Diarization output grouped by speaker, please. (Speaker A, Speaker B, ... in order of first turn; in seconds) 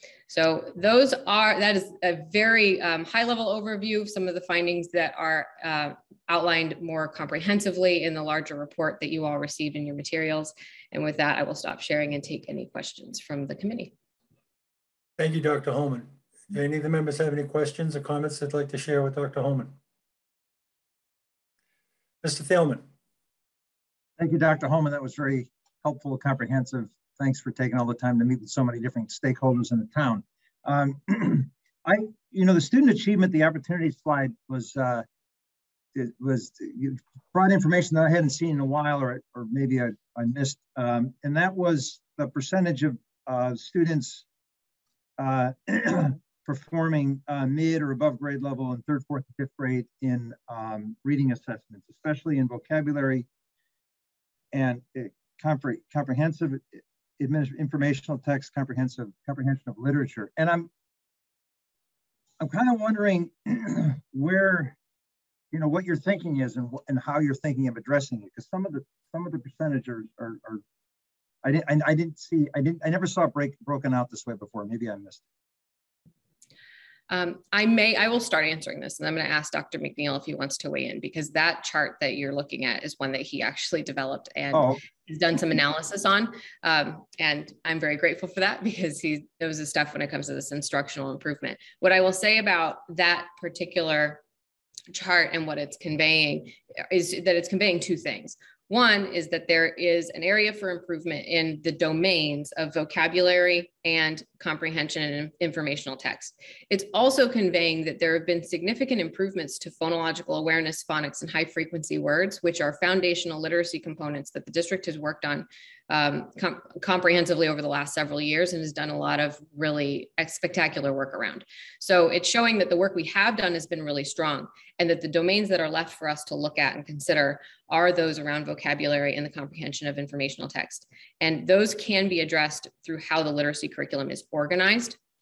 Speaker A: 0.3-13.9, 77.1-94.2, 94.9-135.0
Speaker B: 15.2-19.8, 22.2-22.9
Speaker C: 24.2-35.1, 36.0-44.3, 45.2-53.3, 54.5-60.7, 62.4-64.8, 65.5-70.6, 71.4-75.2, 84.5-84.8